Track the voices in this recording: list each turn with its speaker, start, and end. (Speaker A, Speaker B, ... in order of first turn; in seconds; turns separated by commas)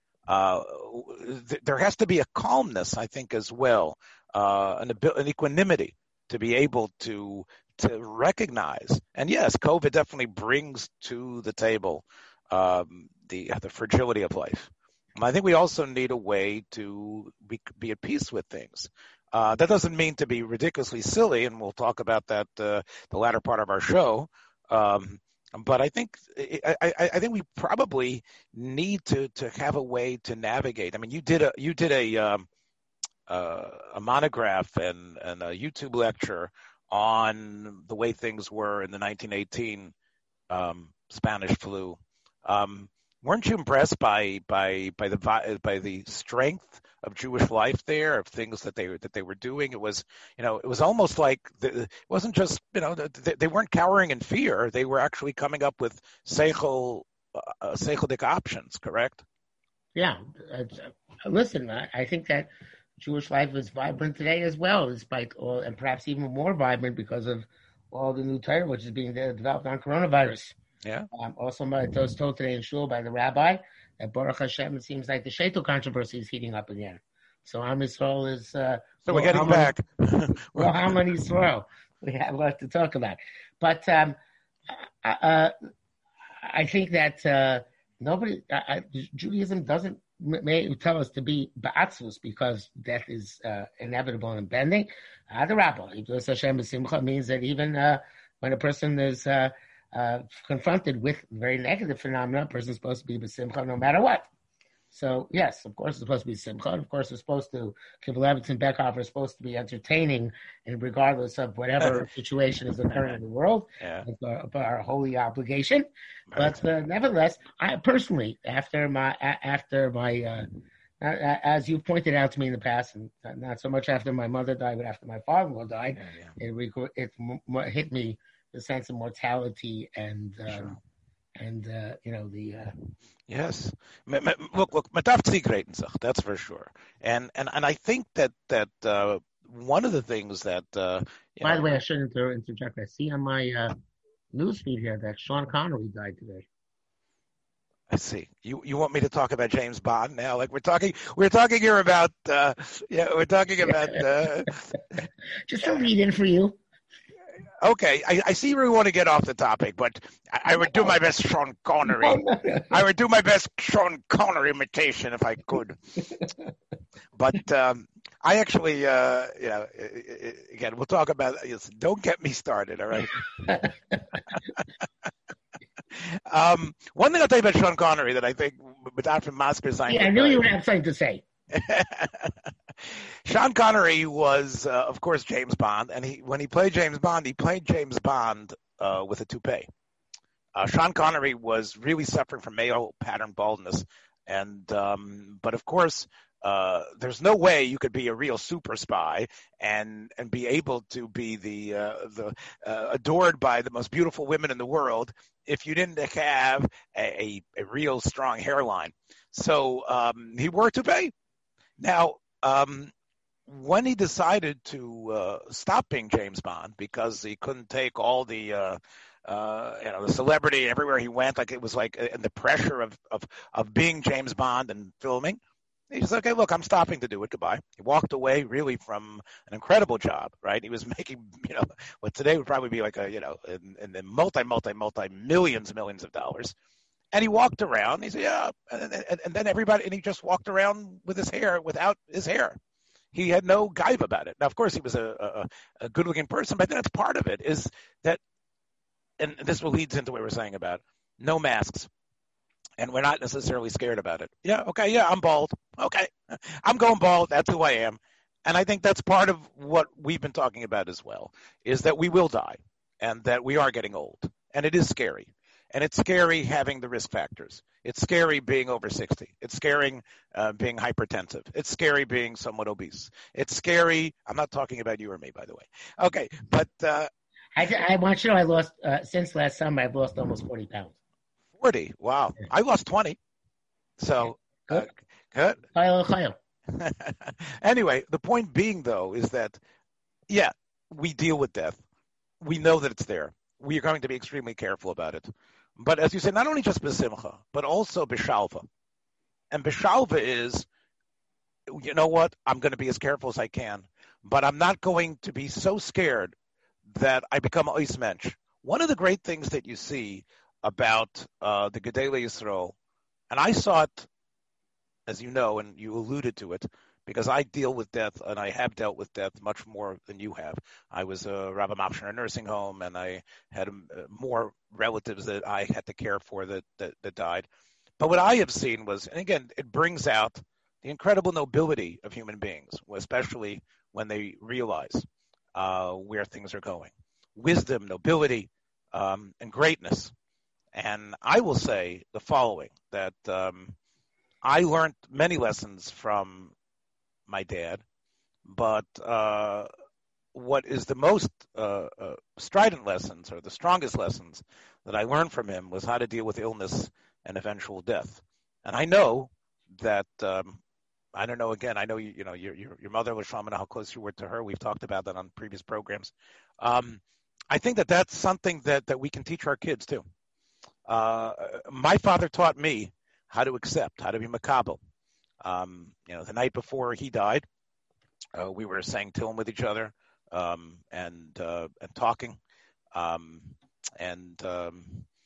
Speaker A: 0.3-32.5, Speaker A: 33.3-39.9, Speaker A: 40.5-59.2, Speaker B: 59.9-70.5, Speaker B: 71.1-79.7, Speaker A: 79.0-81.0, Speaker B: 80.5-84.2, Speaker B: 84.7-85.5, Speaker B: 86.4-104.3, Speaker B: 104.9-120.5, Speaker A: 113.8-114.0, Speaker A: 116.3-116.6, Speaker B: 121.0-130.8, Speaker A: 126.0-126.4, Speaker A: 130.5-130.8, Speaker B: 131.4-132.8, Speaker A: 133.3-141.6, Speaker B: 141.4-143.7, Speaker B: 144.3-146.4, Speaker A: 147.9-155.0, Speaker B: 153.6-154.0, Speaker B: 155.4-156.6, Speaker A: 157.6-165.8, Speaker B: 160.6-160.9, Speaker B: 161.9-162.7, Speaker A: 167.2-173.4, Speaker B: 173.1-174.0, Speaker A: 174.3-174.6, Speaker A: 175.9-180.5, Speaker B: 179.9-181.2, Speaker A: 181.5-182.3, Speaker A: 183.2-189.7, Speaker A: 190.5-211.1, Speaker A: 211.8-212.9, Speaker A: 213.5-225.4, Speaker A: 225.9-236.6, Speaker A: 237.1-242.6, Speaker A: 243.1-248.2, Speaker A: 249.2-251.9, Speaker A: 252.8-277.1, Speaker B: 277.5-280.9, Speaker A: 281.6-283.2, Speaker A: 284.0-285.6, Speaker B: 285.7-286.4, Speaker A: 286.7-289.6, Speaker A: 290.3-291.8, Speaker A: 292.4-298.6, Speaker A: 299.5-300.7, Speaker A: 301.7-306.3, Speaker A: 306.9-312.8, Speaker A: 313.3-314.1, Speaker A: 315.1-327.5, Speaker A: 328.0-340.1, Speaker A: 340.7-343.8, Speaker A: 344.4-346.5, Speaker A: 347.3-347.8, Speaker A: 348.4-349.7, Speaker A: 350.3-360.6, Speaker A: 361.1-370.0, Speaker A: 370.9-374.8, Speaker A: 375.4-377.4, Speaker A: 378.4-382.4, Speaker A: 382.9-385.1